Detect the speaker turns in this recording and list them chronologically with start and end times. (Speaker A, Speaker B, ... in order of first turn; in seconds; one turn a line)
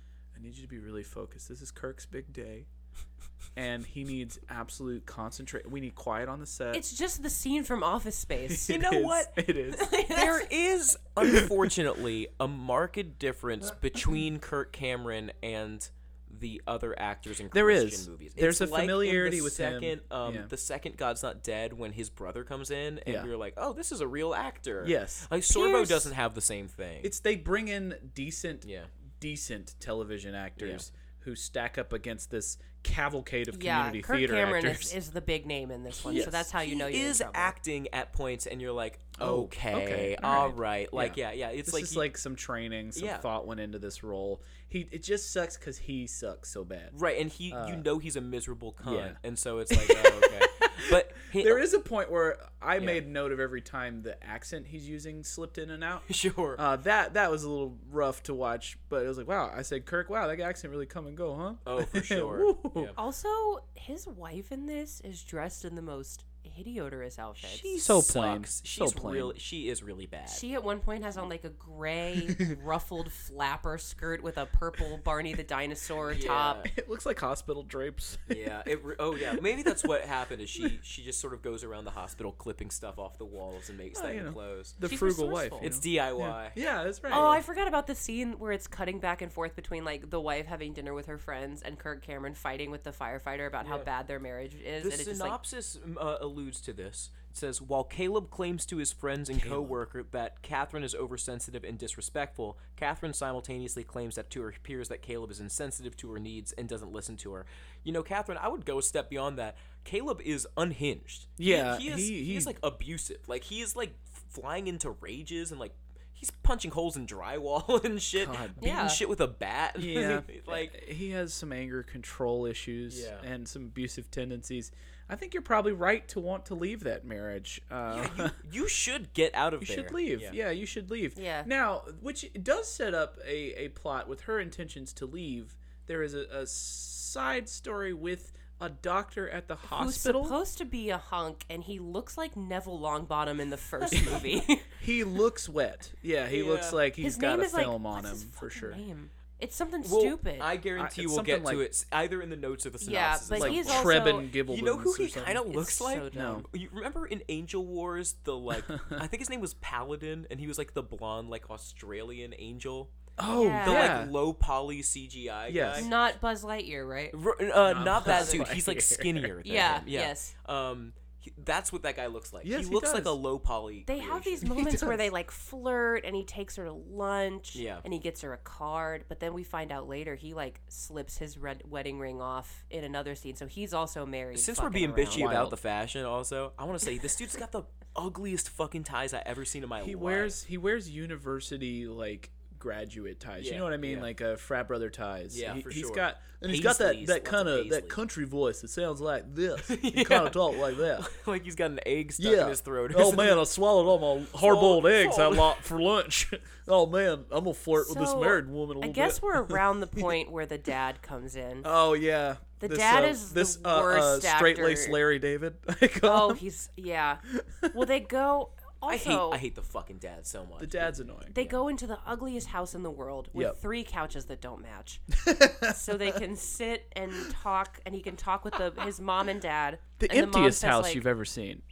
Speaker A: 0.3-2.7
Speaker A: 3.5-6.8
Speaker B: 6.7-8.8
Speaker A: 8.5-9.9
Speaker C: 8.7-9.4
Speaker B: 9.7-10.5
Speaker C: 10.1-27.1
Speaker A: 17.5-20.5
Speaker A: 24.8-25.3
Speaker B: 25.5-26.1
Speaker A: 27.0-28.6
Speaker C: 28.6-28.9
Speaker A: 29.2-34.9
Speaker C: 30.6-30.8
Speaker B: 33.5-37.5
Speaker C: 36.0-42.1
Speaker A: 36.1-36.5
Speaker A: 39.2-46.9
Speaker C: 42.9-43.3
Speaker C: 46.9-51.6
Speaker A: 47.5-47.9
Speaker A: 48.8-49.2
Speaker A: 49.7-62.9
Speaker C: 52.8-53.0
Speaker C: 56.0-56.6
Speaker C: 61.6-63.0
Speaker B: 63.0-67.7
Speaker C: 67.4-70.4
Speaker A: 67.7-69.3
Speaker B: 70.3-76.6
Speaker C: 76.1-76.7
Speaker A: 76.6-78.5
Speaker C: 78.3-84.8
Speaker A: 79.2-79.9
Speaker A: 83.9-87.4
Speaker B: 84.8-85.6
Speaker C: 85.6-86.5
Speaker B: 87.1-95.4
Speaker C: 93.6-93.9
Speaker C: 94.8-120.7
Speaker A: 99.3-99.8
Speaker A: 111.4-112.5
Speaker A: 118.2-118.6
Speaker B: 118.6-119.0
Speaker A: 119.8-128.4
Speaker C: 122.9-123.3
Speaker C: 127.9-130.3
Speaker A: 129.6-140.3
Speaker B: 131.2-131.5
Speaker B: 139.7-144.7
Speaker A: 143.9-148.8
Speaker C: 146.3-146.8
Speaker B: 147.0-150.5
Speaker C: 149.8-162.9
Speaker A: 150.7-151.6
Speaker B: 152.8-154.3
Speaker A: 153.3-155.4
Speaker B: 155.5-156.4
Speaker A: 156.1-156.4
Speaker A: 158.6-159.0
Speaker A: 163.2-164.1
Speaker B: 163.3-164.0
Speaker C: 163.6-165.9
Speaker A: 165.5-165.9
Speaker B: 165.7-167.2
Speaker C: 167.1-174.5
Speaker A: 167.6-169.3
Speaker B: 168.0-168.5
Speaker B: 169.4-170.3
Speaker A: 172.4-173.2
Speaker B: 173.8-185.4
Speaker A: 174.4-175.0
Speaker C: 177.5-177.8
Speaker C: 184.3-190.3
Speaker A: 185.2-185.5
Speaker A: 189.8-201.1
Speaker C: 193.4-194.1
Speaker C: 195.3-198.0
Speaker C: 199.6-203.5
Speaker A: 202.2-210.1
Speaker C: 204.4-205.6
Speaker B: 207.8-211.7
Speaker A: 211.6-216.4
Speaker B: 212.6-215.0
Speaker B: 216.0-219.4
Speaker A: 217.3-217.8
Speaker C: 218.8-220.8
Speaker A: 220.6-221.6
Speaker B: 221.3-231.0
Speaker A: 225.1-226.1
Speaker A: 230.0-231.6